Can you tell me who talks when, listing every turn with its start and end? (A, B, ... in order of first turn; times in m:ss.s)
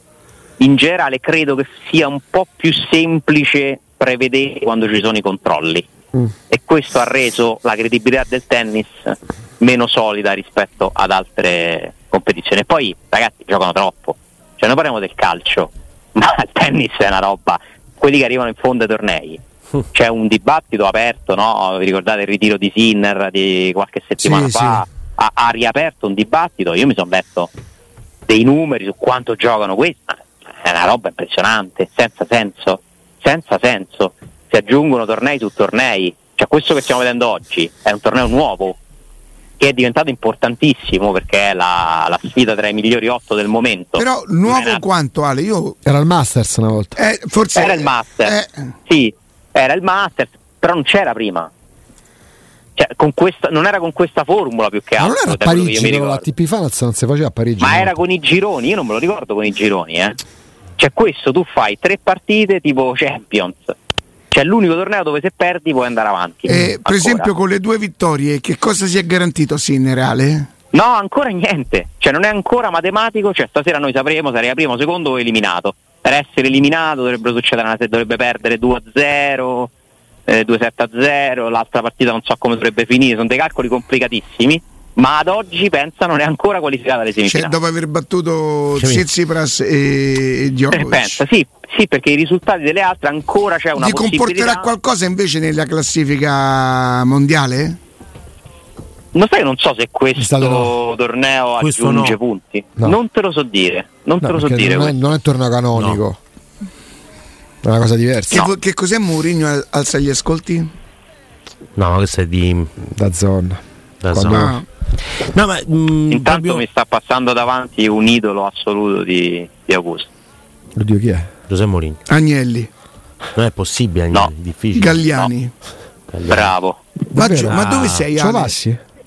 0:00.6-0:05.9 A
0:06.5-0:19.4 A
0:19.9-0:27.5 A
0:24.2-0:24.8 B
0:28.3-0:38.8 A
0:39.6-0:44.8 A
0:44.0-0:45.8 C
0:45.9-0:47.0 B
0:47.0-0:48.5 C
0:47.5-0:51.5 A
0:52.8-0:56.3 A
0:55.0-0:58.0 B
0:57.6-1:00.2 A
1:00.8-1:03.8 A
1:04.3-1:07.3 A
1:06.5-1:10.5 C
1:10.7-1:19.7 A
1:20.3-1:27.6 A
1:27.3-1:31.2 C
1:28.8-1:29.0 D
1:30.7-1:34.7 A
1:33.8-1:37.8 C
1:39.1-1:45.0 A
1:40.2-1:40.7 B
1:41.6-1:42.2 D
1:44.2-1:46.2 B
1:45.8-1:46.0 D
1:47.6-1:48.4 B
1:48.3-1:50.7 C
1:51.8-1:52.7 D
1:52.8-1:54.6 B
1:54.0-1:54.5 D
1:54.3-1:54.6 C
1:55.1-1:56.6 D
1:56.1-2:00.1 A
2:00.8-2:01.3 B
2:01.5-2:02.0 D
2:02.1-2:02.7 C
2:03.4-2:05.1 D
2:04.7-2:05.5 C
2:06.1-2:06.5 D
2:06.3-2:06.8 A
2:07.1-2:08.6 C
2:07.1-2:08.8 B
2:07.5-2:08.1 D